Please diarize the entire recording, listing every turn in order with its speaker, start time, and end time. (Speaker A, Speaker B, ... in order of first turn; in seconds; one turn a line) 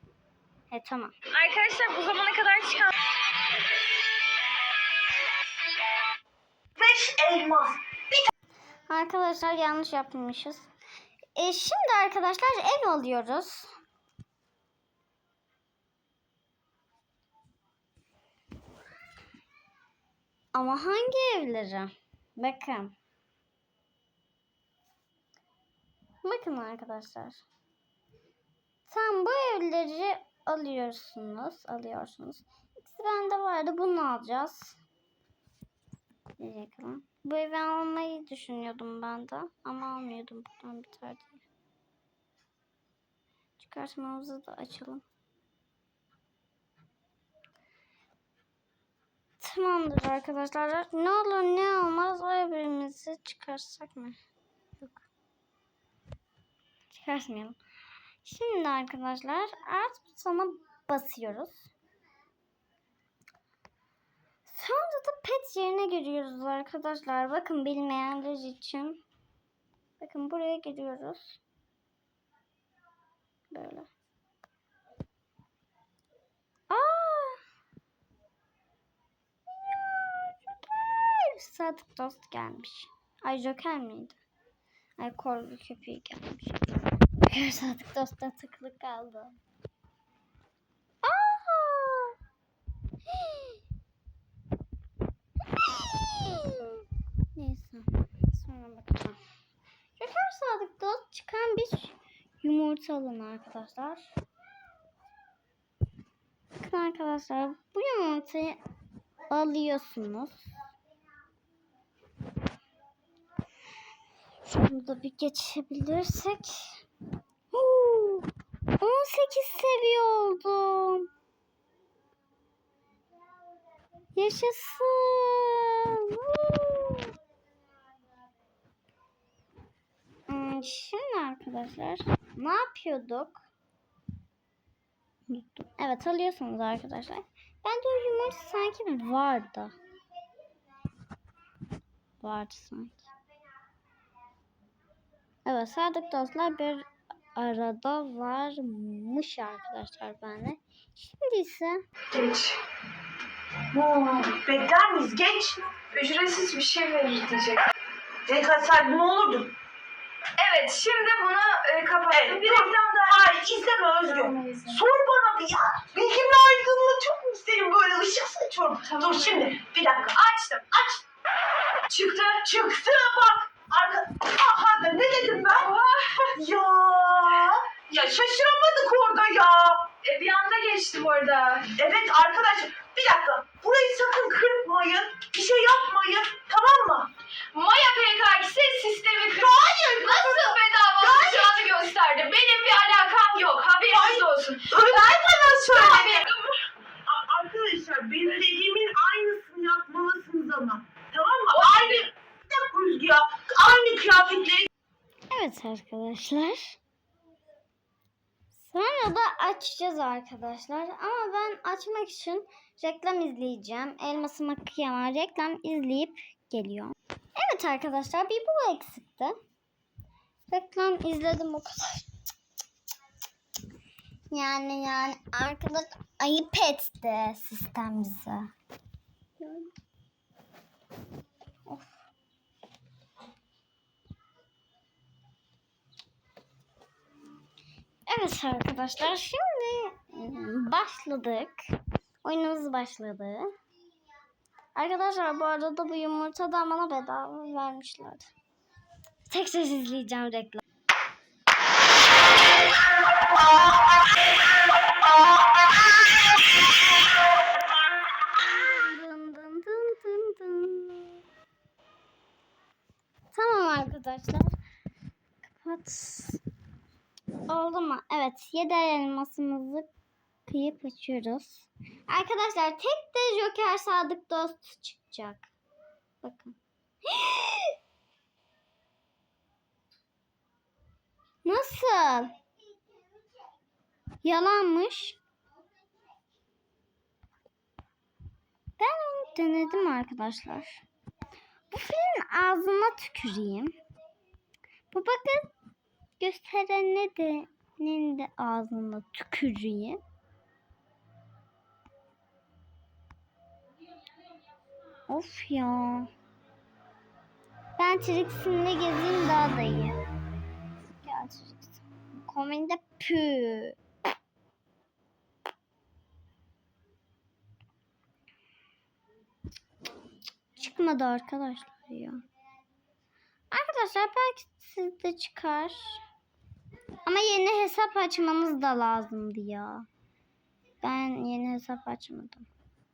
Speaker A: 0.7-1.1
Speaker B: 1.3-2.9
Speaker C: 6.8-8.3
Speaker A: 8.9-10.7
Speaker A: 11.3-13.7
Speaker A: 20.5-22.9
Speaker A: 26.2-27.4
Speaker A: 28.9-34.8
Speaker A: 36.4-41.4
Speaker A: 43.6-45.0
Speaker A: 49.4-54.2
Speaker A: 56.9-57.6
Speaker A: 58.2-61.7
Speaker A: 64.5-69.0
Speaker A: 70.0-71.4
Speaker A: 73.5-73.9
Speaker A: 76.7-77.4
Speaker A: 79.8-84.2
Speaker A: 85.0-89.4
Speaker A: 91.0-92.2
Speaker A: 93.1-93.6
Speaker A: 95.5-99.2
Speaker A: 100.0-104.1
Speaker A: 106.6-108.6
Speaker A: 109.3-110.5
Speaker A: 114.4-116.8
Speaker A: 117.5-121.1
Speaker A: 124.2-127.2
Speaker A: 130.3-133.4
Speaker A: 135.3-139.8
Speaker A: 142.2-143.1
Speaker A: 145.4-151.8
Speaker B: 152.1-152.6
Speaker C: 153.7-155.8
Speaker B: 155.9-157.6
Speaker C: 158.2-159.5
Speaker B: 160.4-163.3
Speaker C: 162.1-170.2
Speaker B: 164.0-164.8
Speaker B: 168.8-170.7
Speaker C: 170.7-171.0
Speaker B: 171.9-172.5
Speaker C: 172.4-175.8
Speaker B: 175.5-176.4
Speaker C: 176.3-179.9
Speaker B: 177.9-178.2
Speaker B: 180.0-181.7
Speaker C: 181.7-187.1
Speaker B: 187.5-196.6
Speaker C: 189.3-191.6
Speaker C: 193.9-196.3
Speaker C: 197.1-204.7
Speaker B: 201.5-202.1
Speaker A: 205.3-206.8
Speaker A: 208.6-219.4
Speaker A: 220.5-222.1
Speaker A: 224.3-228.5
Speaker A: 229.4-229.7
Speaker A: 231.7-231.9
Speaker A: 238.1-241.7
Speaker A: 242.2-243.5
Speaker A: 244.8-248.3
Speaker A: 249.3-250.6
Speaker A: 258.3-261.2
Speaker A: 263.3-264.6
Speaker A: 265.4-266.4
Speaker A: 267.5-269.9
Speaker A: 270.5-275.5
Speaker A: 276.2-277.8
Speaker A: 281.4-282.4
Speaker A: 284.2-285.2
Speaker A: 288.8-290.9
Speaker A: 291.7-293.8
Speaker A: 294.9-295.5
Speaker A: 296.2-300.0
Speaker A: 305.1-306.1
Speaker A: 307.8-310.0
Speaker A: 311.0-313.8
Speaker A: 320.6-322.2
Speaker A: 323.5-326.0
Speaker A: 327.0-329.9
Speaker A: 330.8-332.5